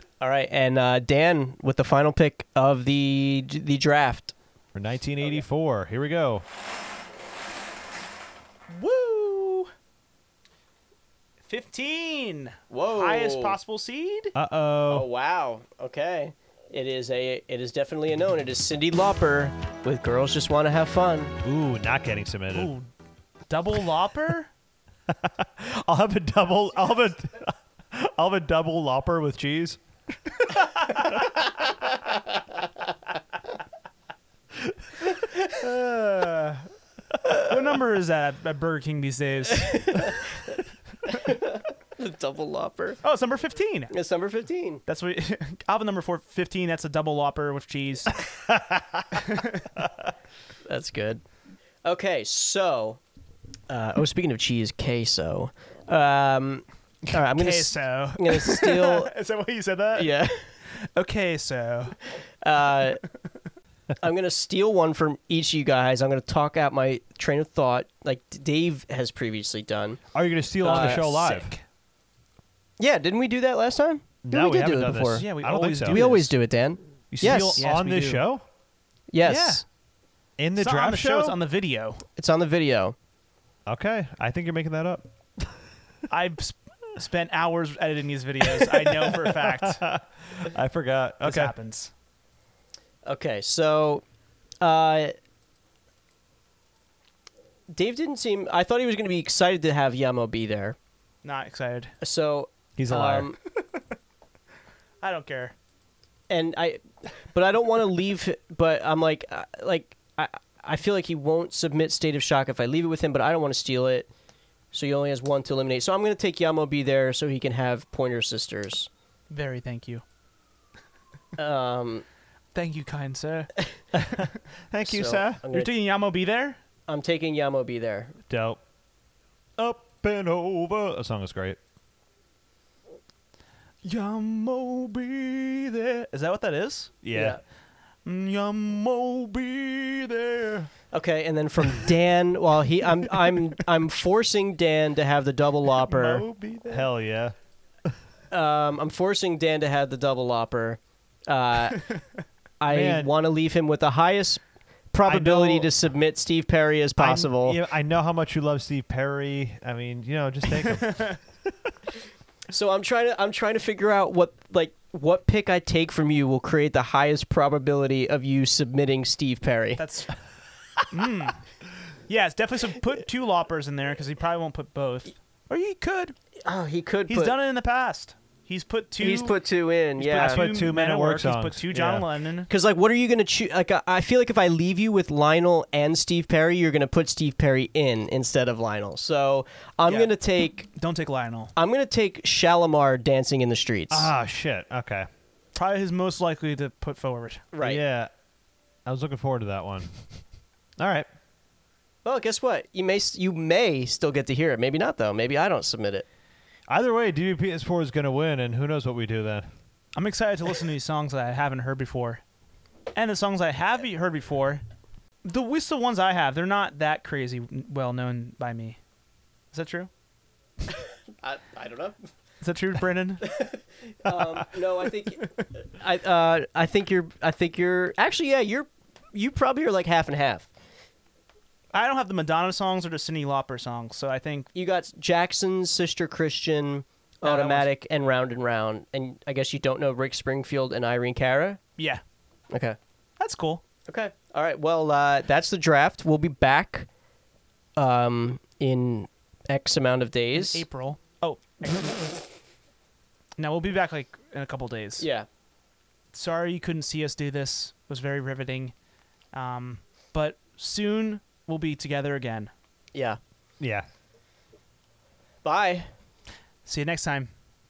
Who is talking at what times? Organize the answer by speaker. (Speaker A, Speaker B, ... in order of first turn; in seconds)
Speaker A: 0.2-4.3, 12.7-13.6, 14.9-21.3, 39.7-43.0, 43.9-44.8, 50.7-51.2, 51.8-53.0, 53.7-59.1, 59.9-60.5, 62.4-63.0, 64.0-70.0, 70.6-71.1, 72.8-75.3, 75.8-77.6, 79.1-79.6, 82.2-82.9, 93.0-94.0, 94.6-95.1, 97.7-100.8, 102.0-103.4, 106.3-114.1, 114.7-118.9, 121.4-122.0, 124.8-125.7, 126.9-128.1, 140.9-146.2, 148.3-151.8, 152.6-157.6, 162.5-169.8, 176.4-177.3, 179.0-180.5, 182.5-190.7, 191.5-194.1, 197.5-197.8, 202.0-206.1, 221.2-221.9, 223.3-230.5, 234.5-241.6, 242.5-242.8, 243.8-246.9, 247.8-250.6, 255.0-255.3, 262.9-263.2, 265.4-265.9
Speaker B: 4.7-6.4, 14.3-15.1, 21.4-22.7, 25.1-29.8, 35.5-36.5, 48.2-49.2, 49.8-50.1, 70.1-71.5, 74.2-76.3, 77.1-78.4, 80.4-81.4, 83.7-85.5, 88.6-91.5, 102.8-103.3, 123.9-125.4, 128.3-128.6, 129.6-131.6, 137.0-137.4, 146.7-147.3, 152.7-153.1, 155.1-155.6, 157.0-161.2, 180.2-182.1, 193.9-195.1, 197.6-198.1, 198.8-199.9, 200.8-201.1, 206.7-209.5, 263.6-263.9
Speaker C: 8.7-9.7, 11.5-14.3, 22.5-22.9, 23.5-24.5, 37.3-40.2, 43.0-43.9, 44.9-48.2, 49.1-49.7, 57.1-62.0, 70.6-71.6, 75.1-76.3, 77.2-78.2, 79.2-79.6, 80.6-82.0, 86.1-89.8, 91.2-91.9, 101.2-101.9, 105.0-105.5, 119.3-120.0, 122.5-123.5, 125.5-126.6, 133.8-137.4, 138.0-140.7, 145.8-146.9, 155.3-155.5, 160.6-161.2, 169.8-170.1, 170.9-171.4, 172.1-176.1, 177.1-179.3, 180.0-182.5, 189.8-190.1, 190.7-191.5, 195.5-197.5, 209.9-212.2, 212.9-214.6, 215.2-218.8, 219.5-219.9, 222.4-223.3, 231.7-234.5, 237.2-237.7, 243.2-243.6, 250.3-252.1, 253.4-255.1, 256.1-258.7, 259.3-262.5, 266.6-267.3